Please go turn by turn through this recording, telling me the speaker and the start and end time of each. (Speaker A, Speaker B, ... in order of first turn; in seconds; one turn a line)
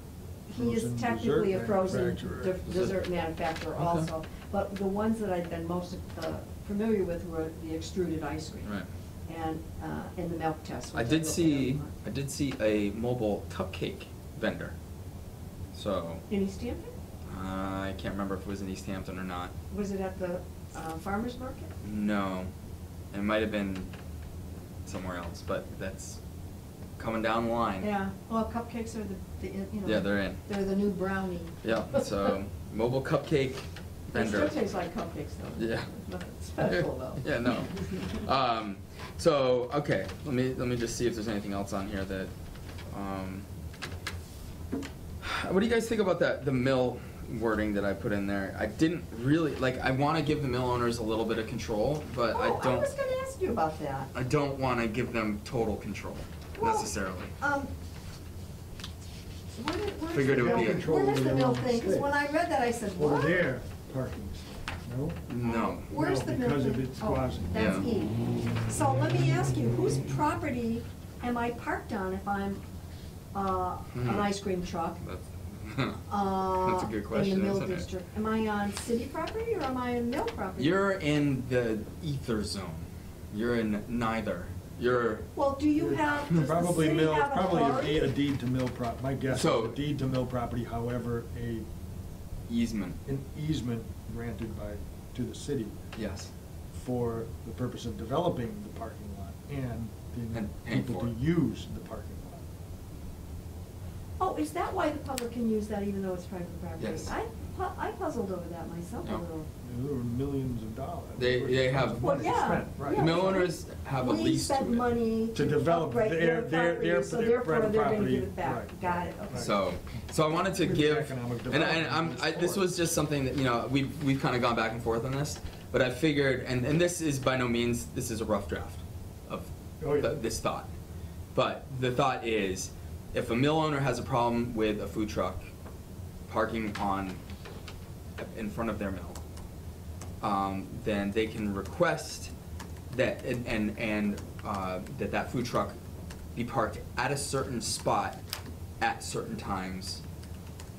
Speaker A: 0.5-8.7
Speaker B: 0.6-2.9
Speaker C: 3.8-4.1
Speaker A: 9.3-11.9
Speaker C: 10.9-14.8
Speaker C: 15.7-16.2
Speaker A: 16.3-16.9
Speaker C: 17.3-19.5
Speaker A: 19.7-21.7
Speaker C: 21.8-22.5
Speaker C: 23.1-23.9
Speaker C: 24.9-26.2
Speaker C: 27.0-27.9
Speaker A: 27.8-32.3
Speaker C: 29.8-30.4
Speaker C: 31.6-34.5
Speaker A: 34.1-37.2
Speaker C: 35.6-35.9
Speaker C: 36.6-42.3
Speaker C: 42.9-43.5
Speaker C: 45.2-52.9
Speaker A: 52.3-54.1
Speaker C: 54.1-57.3
Speaker A: 56.6-57.7
Speaker A: 59.5-63.5
Speaker C: 60.1-60.9
Speaker B: 60.3-62.1
Speaker B: 62.9-65.2
Speaker C: 65.3-65.9
Speaker A: 65.4-72.6
Speaker B: 65.9-67.8
Speaker C: 67.5-67.8
Speaker A: 73.3-75.0
Speaker C: 73.9-74.3
Speaker C: 75.0-77.9
Speaker A: 76.1-80.8
Speaker C: 80.6-85.3
Speaker A: 85.3-88.1
Speaker B: 85.8-91.7
Speaker C: 89.3-89.8
Speaker C: 92.5-93.0
Speaker B: 93.0-95.8
Speaker C: 96.0-96.3
Speaker B: 96.7-102.4
Speaker C: 100.3-101.1
Speaker A: 104.2-109.5
Speaker C: 106.8-107.1
Speaker B: 109.6-113.4
Speaker C: 111.2-112.1
Speaker A: 112.0-119.5
Speaker C: 112.9-114.8
Speaker B: 115.3-119.5
Speaker C: 119.3-130.7
Speaker B: 120.5-122.8
Speaker B: 129.8-130.1
Speaker C: 131.3-135.5
Speaker C: 136.3-137.2
Speaker C: 138.2-139.2
Speaker C: 140.2-142.3
Speaker C: 142.9-145.8
Speaker C: 146.3-148.2
Speaker C: 148.8-150.0